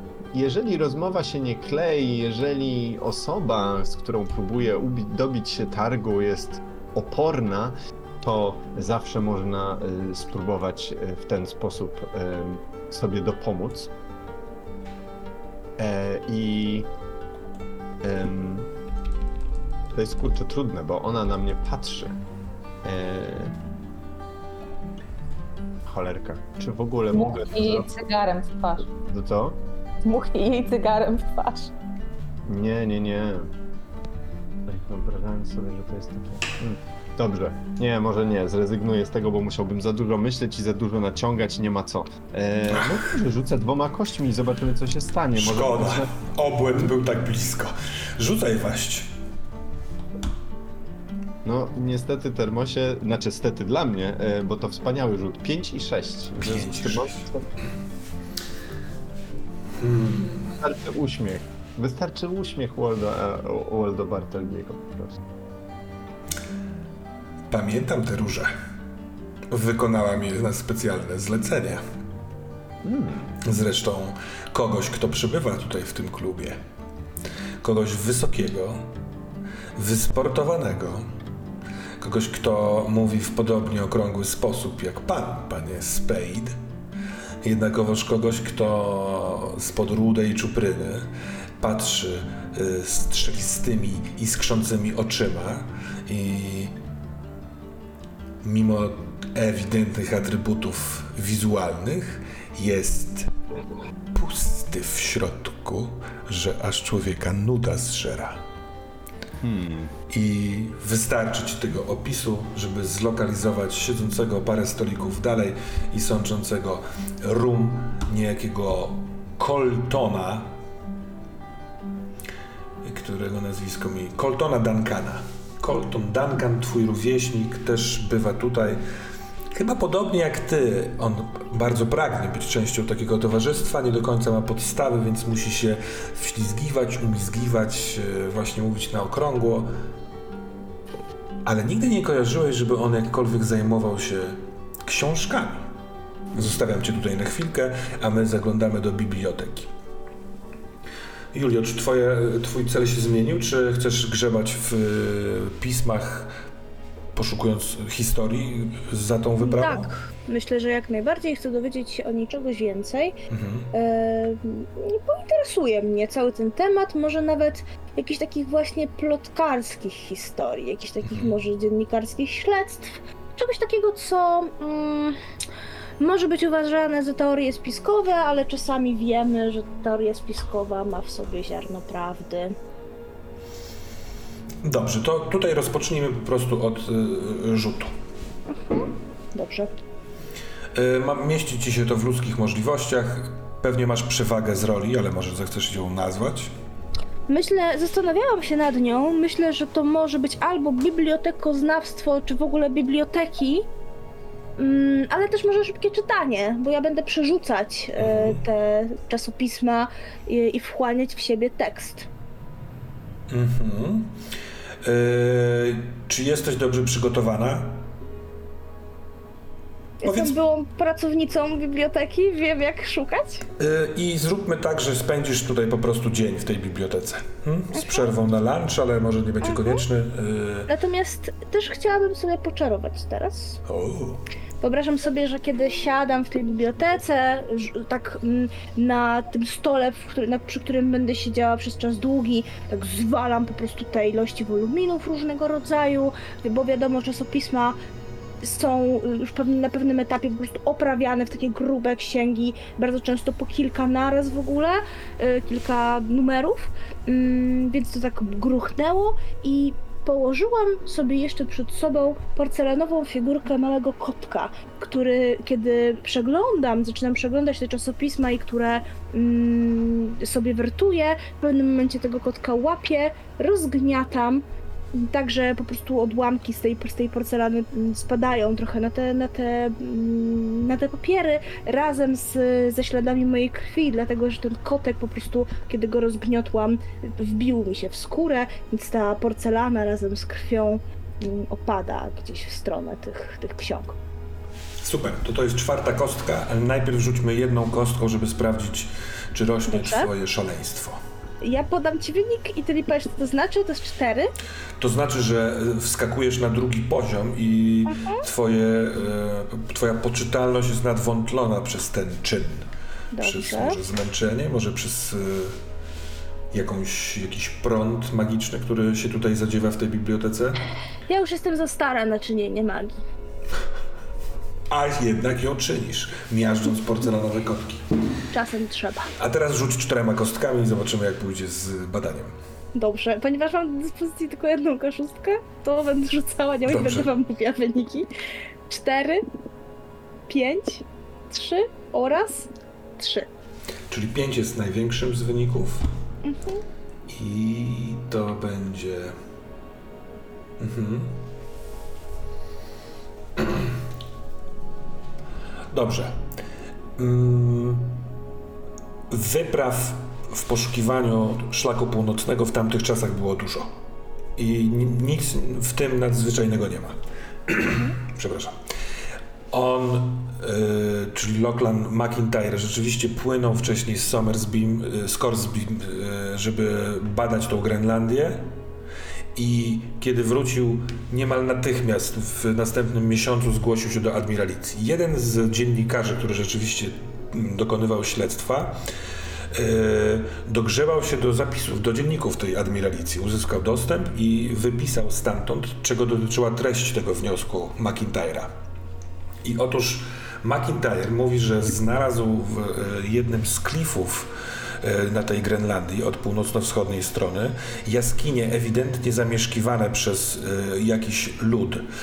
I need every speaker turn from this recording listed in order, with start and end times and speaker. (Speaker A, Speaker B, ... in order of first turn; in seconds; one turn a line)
Speaker A: 0.3-13.9
Speaker A: 15.8-16.9
Speaker A: 18.0-18.7
Speaker A: 19.9-22.2
Speaker A: 22.8-23.5
Speaker A: 25.8-27.9
Speaker B: 27.1-28.9
Speaker A: 29.0-29.6
Speaker B: 30.0-31.7
Speaker A: 32.4-33.5
Speaker A: 34.6-46.1
Speaker C: 45.4-49.1
Speaker A: 51.4-57.5
Speaker C: 56.4-57.2
Speaker C: 59.8-60.5
Speaker A: 60.6-65.2
Speaker C: 67.5-68.5
Speaker C: 69.5-71.8
Speaker A: 72.8-73.3
Speaker C: 73.4-76.6
Speaker C: 77.6-78.8
Speaker C: 79.8-81.1
Speaker C: 82.0-86.5
Speaker C: 87.4-96.7
Speaker C: 98.4-103.3
Speaker C: 104.1-108.4
Speaker A: 109.4-109.9
Speaker C: 110.1-120.5
Speaker C: 122.8-128.8
Speaker C: 129.5-139.7
Speaker C: 141.4-145.7
Speaker C: 146.3-149.7
Speaker C: 151.3-156.3
Speaker C: 157.1-159.9
Speaker D: 159.4-163.2
Speaker C: 163.3-163.7
Speaker D: 163.7-175.1
Speaker C: 171.0-171.3
Speaker D: 176.0-182.5
Speaker C: 184.6-187.9
Speaker D: 188.6-189.7
Speaker C: 190.7-196.5
Speaker D: 197.3-203.7
Speaker D: 204.6-212.1
Speaker C: 208.0-208.4
Speaker C: 213.3-214.1
Speaker C: 214.8-217.9
Speaker D: 220.0-223.4
Speaker C: 220.0-220.4
Speaker C: 223.6-230.7
Speaker D: 227.7-228.1
Speaker D: 229.4-229.8
Speaker D: 230.7-233.6
Speaker C: 233.6-234.2
Speaker D: 234.6-247.8
Speaker D: 248.4-294.0
Speaker C: 294.8-301.0
Speaker D: 299.7-300.1
Speaker D: 301.4-304.3
Speaker C: 304.8-312.6
Speaker D: 307.9-308.2
Speaker D: 313.1-313.8
Speaker C: 313.2-315.6
Speaker C: 316.5-320.6
Speaker D: 321.1-323.0
Speaker C: 324.7-327.9
Speaker D: 328.3-329.1
Speaker C: 329.2-332.3
Speaker D: 332.7-338.1
Speaker C: 336.6-337.1
Speaker D: 338.7-339.2
Speaker D: 340.3-343.3
Speaker C: 343.9-345.9
Speaker D: 346.2-346.6
Speaker C: 347.1-349.1
Speaker C: 350.6-351.1
Speaker C: 353.4-353.7
Speaker C: 355.7-356.2
Speaker C: 357.0-358.0
Speaker C: 359.1-363.7
Speaker C: 364.4-366.9
Speaker C: 367.5-368.6
Speaker C: 369.5-378.5
Speaker C: 379.3-388.8
Speaker C: 389.5-398.5
Speaker C: 399.4-404.3
Speaker C: 404.8-411.8